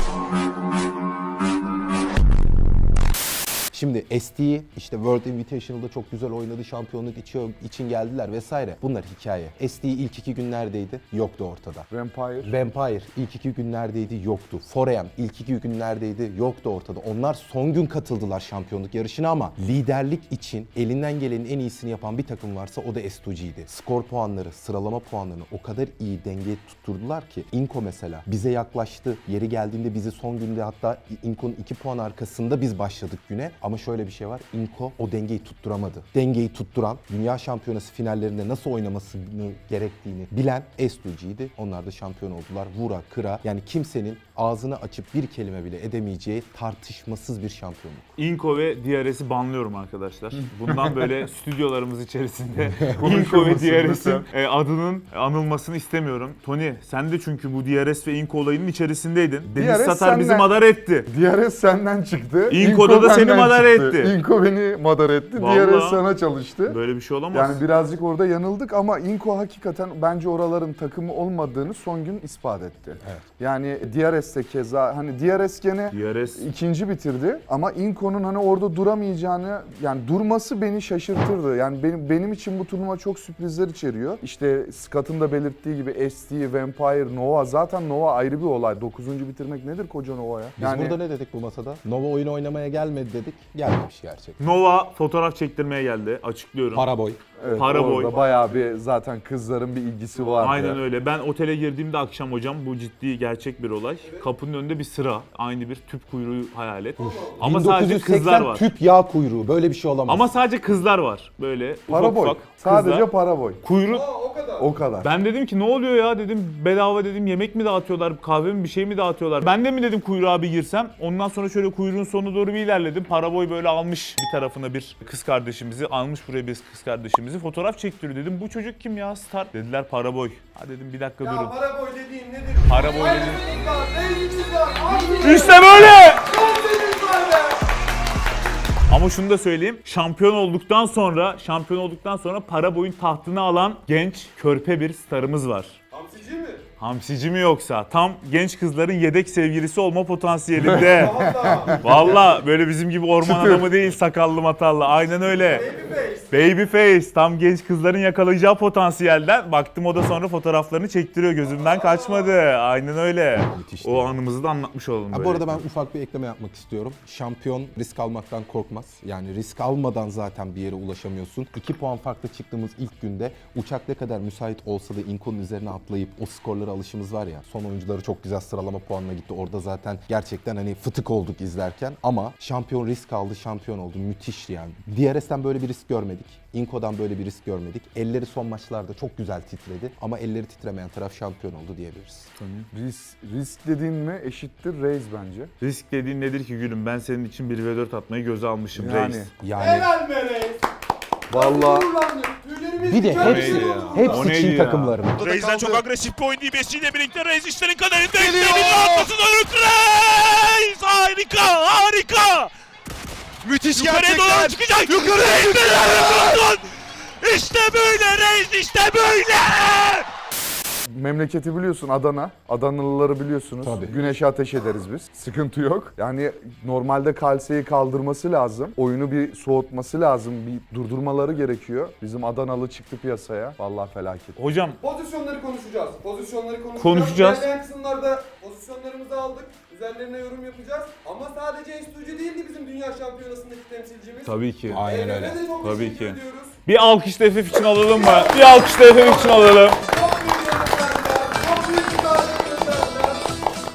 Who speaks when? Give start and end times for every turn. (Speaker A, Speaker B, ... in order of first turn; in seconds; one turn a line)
Speaker A: 3.7-11.9
Speaker B: 11.9-12.5
Speaker A: 12.4-48.1
Speaker C: 48.2-61.1
Speaker B: 53.0-54.3
Speaker B: 59.6-60.5
Speaker B: 61.1-66.8
Speaker C: 62.5-64.2
Speaker C: 65.4-66.0
Speaker C: 66.7-67.6
Speaker B: 67.3-91.0
Speaker C: 75.9-76.5
Speaker A: 90.6-94.4
Speaker C: 94.4-96.9
Speaker A: 96.7-97.2
Speaker B: 97.4-100.8
Speaker C: 97.5-98.1
Speaker D: 98.1-98.4
Speaker C: 100.4-108.7
Speaker D: 107.0-107.4
Speaker A: 107.4-110.3
Speaker C: 110.1-113.1
Speaker B: 111.9-113.6
Speaker C: 113.6-114.0
Speaker D: 113.9-114.7
Speaker B: 114.6-115.1
Speaker C: 115.0-131.6
Speaker D: 131.2-137.6
Speaker C: 132.7-133.4
Speaker C: 135.2-136.3
Speaker C: 138.9-145.8
Speaker D: 145.9-146.6
Speaker C: 146.8-151.2
Speaker D: 150.8-152.2
Speaker C: 151.8-155.7
Speaker D: 155.4-156.3
Speaker C: 156.3-165.6
Speaker D: 161.6-162.3
Speaker A: 163.5-164.2
Speaker A: 165.1-192.3
Speaker C: 192.4-192.7
Speaker B: 192.7-195.5
Speaker C: 195.6-199.3
Speaker B: 198.8-199.3
Speaker A: 199.4-199.9
Speaker D: 199.6-200.7
Speaker B: 201.3-201.9
Speaker D: 201.3-204.3
Speaker A: 202.8-205.3
Speaker C: 203.2-205.0
Speaker E: 205.2-212.5
Speaker F: 205.4-205.8
Speaker F: 208.3-209.1
Speaker F: 213.4-215.9
Speaker E: 213.7-216.7
Speaker E: 217.2-220.1
Speaker B: 220.9-234.4
Speaker A: 223.6-224.2
Speaker C: 234.4-234.8
Speaker D: 234.8-246.6
Speaker C: 236.8-237.5
Speaker C: 244.2-244.8
Speaker A: 244.7-245.4
Speaker C: 245.6-249.8
Speaker D: 247.9-253.3